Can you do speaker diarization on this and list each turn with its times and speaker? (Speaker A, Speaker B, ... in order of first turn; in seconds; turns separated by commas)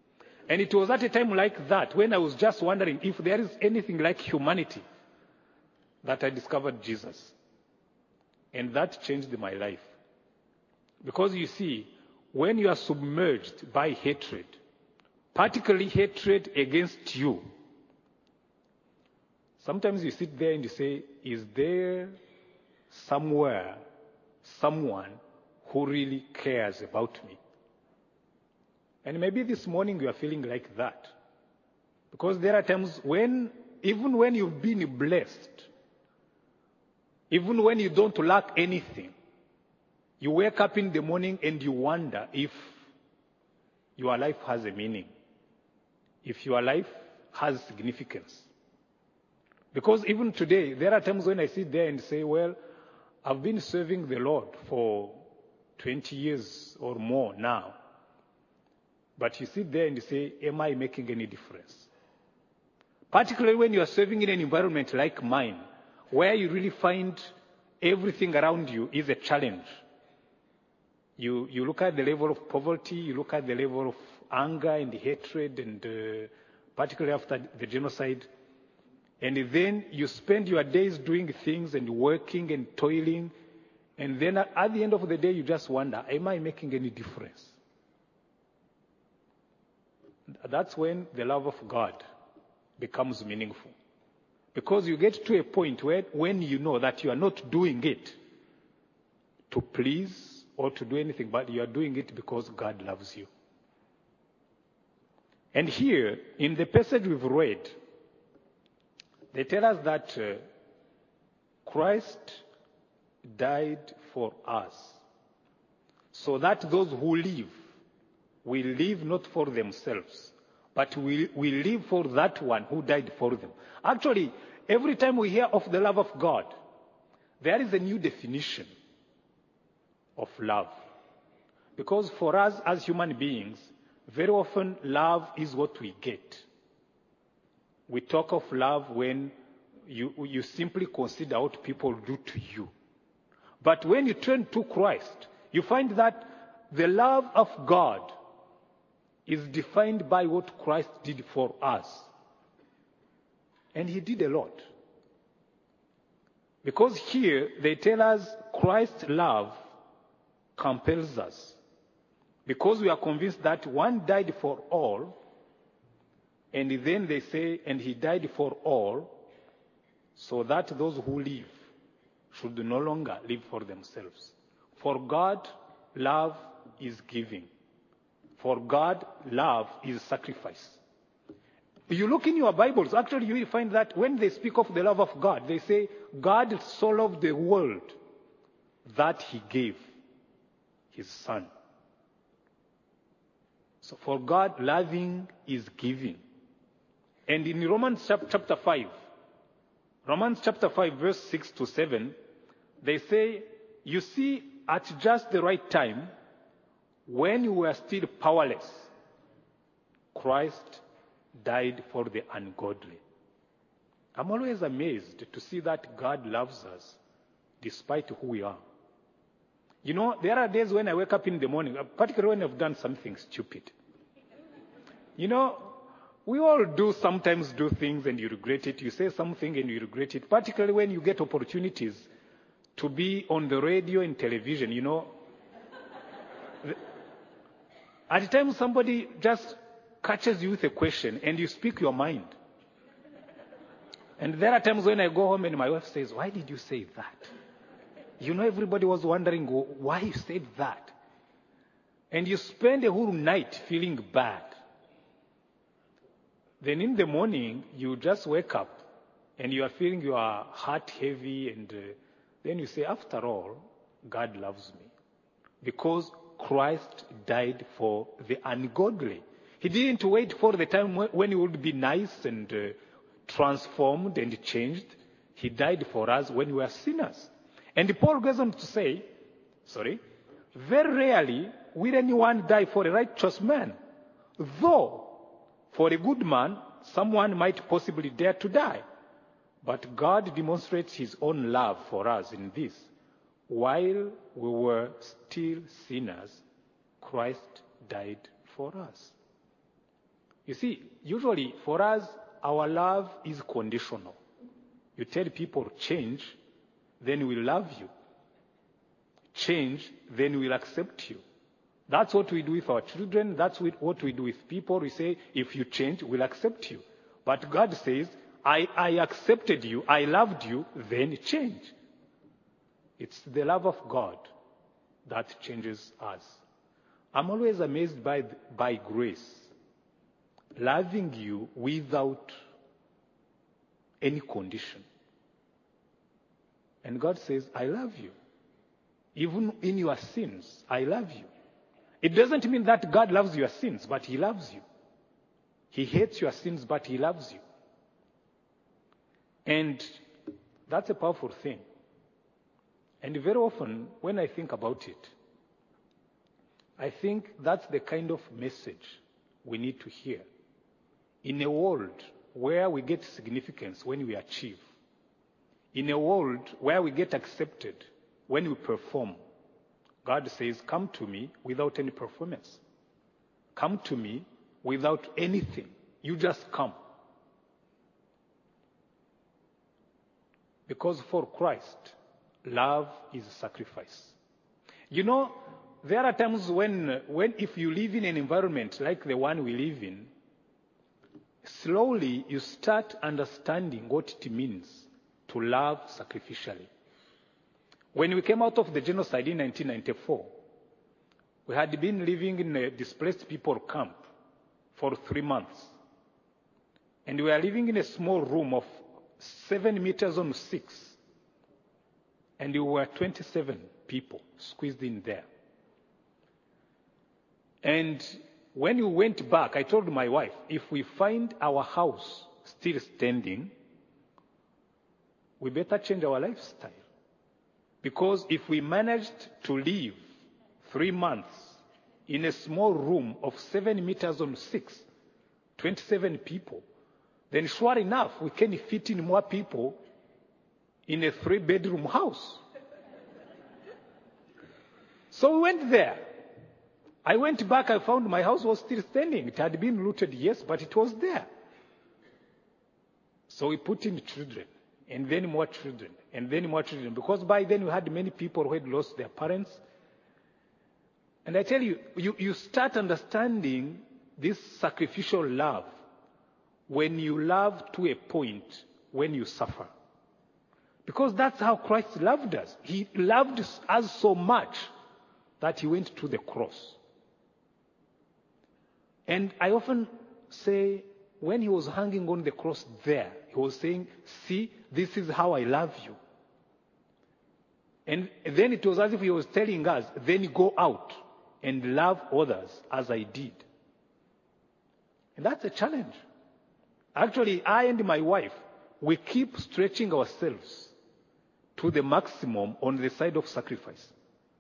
Speaker A: 0.5-4.8, Speaker A: 6.0-7.4, Speaker A: 8.5-9.9, Speaker A: 11.0-14.6, Speaker A: 15.3-17.4, Speaker A: 19.6-22.1, Speaker A: 22.9-23.8, Speaker A: 24.4-27.4, Speaker A: 29.0-31.1, Speaker A: 32.1-35.7, Speaker A: 37.3-39.1, Speaker A: 40.2-42.8, Speaker A: 44.0-45.1, Speaker A: 46.2-48.5, Speaker A: 49.7-52.6, Speaker A: 53.2-55.2, Speaker A: 55.8-57.8, Speaker A: 59.2-61.9, Speaker A: 63.1-65.6, Speaker A: 66.1-67.3, Speaker A: 67.8-69.7, Speaker A: 71.2-78.3, Speaker A: 79.2-83.3, Speaker A: 84.0-87.6, Speaker A: 90.4-92.0, Speaker A: 92.8-93.8, Speaker A: 94.5-98.2, Speaker A: 99.5-103.3, Speaker A: 105.5-107.8, Speaker A: 109.3-110.4, Speaker A: 111.7-112.5, Speaker A: 113.3-115.0, Speaker A: 116.1-117.5, Speaker A: 118.4-126.5, Speaker A: 127.4-128.7, Speaker A: 130.2-130.7, Speaker A: 131.8-136.5, Speaker A: 137.9-139.3, Speaker A: 139.9-142.7, Speaker A: 143.6-148.1, Speaker A: 149.3-152.1, Speaker A: 153.7-154.6, Speaker A: 156.6-159.6, Speaker A: 160.6-161.6, Speaker A: 162.5-165.2, Speaker A: 166.5-169.2, Speaker A: 170.2-171.5, Speaker A: 172.3-177.5, Speaker A: 178.4-180.8, Speaker A: 181.9-188.0, Speaker A: 188.8-189.8, Speaker A: 190.9-191.5, Speaker A: 193.8-196.2, Speaker A: 197.3-198.9, Speaker A: 200.1-202.2, Speaker A: 202.8-206.1, Speaker A: 207.1-208.9, Speaker A: 210.1-210.8, Speaker A: 211.4-213.0, Speaker A: 214.2-217.0, Speaker A: 217.6-218.6, Speaker A: 219.8-223.7, Speaker A: 225.2-232.1, Speaker A: 232.8-235.1, Speaker A: 238.1-242.3, Speaker A: 244.2-247.3, Speaker A: 248.2-250.9, Speaker A: 252.1-254.6, Speaker A: 256.6-258.8, Speaker A: 259.4-264.9, Speaker A: 265.6-279.1, Speaker A: 279.6-280.0, Speaker A: 280.5-283.8, Speaker A: 284.4-288.8, Speaker A: 289.6-292.9, Speaker A: 293.5-296.4, Speaker A: 297.0-299.2, Speaker A: 300.5-304.2, Speaker A: 305.0-306.4, Speaker A: 307.0-307.9, Speaker A: 309.3-311.2, Speaker A: 311.9-321.7, Speaker A: 323.0-324.3, Speaker A: 325.1-326.4, Speaker A: 327.1-329.5, Speaker A: 330.6-332.3, Speaker A: 334.0-334.9, Speaker A: 336.8-338.1, Speaker A: 339.1-341.3, Speaker A: 342.0-344.6, Speaker A: 345.7-347.4, Speaker A: 349.5-350.0, Speaker A: 350.7-351.6, Speaker A: 353.0-355.1, Speaker A: 356.8-360.2, Speaker A: 361.2-364.6, Speaker A: 365.7-369.2, Speaker A: 370.0-372.6, Speaker A: 373.6-376.8, Speaker A: 380.7-384.2, Speaker A: 384.9-390.1, Speaker A: 391.4-396.7, Speaker A: 397.9-400.3, Speaker A: 401.5-404.0, Speaker A: 404.8-405.8, Speaker A: 407.1-411.0, Speaker A: 412.4-415.3, Speaker A: 417.6-423.5, Speaker A: 425.4-426.8, Speaker A: 427.8-430.0, Speaker A: 430.6-434.9, Speaker A: 435.6-436.6, Speaker A: 437.3-439.8, Speaker A: 440.9-442.4, Speaker A: 445.1-446.1, Speaker A: 447.1-451.3, Speaker A: 453.3-459.6, Speaker A: 461.2-465.7, Speaker A: 466.7-469.7, Speaker A: 470.9-474.7, Speaker A: 475.4-476.8, Speaker A: 479.1-486.0, Speaker A: 487.9-493.4, Speaker A: 495.2-496.0, Speaker A: 496.9-500.7, Speaker A: 501.6-503.9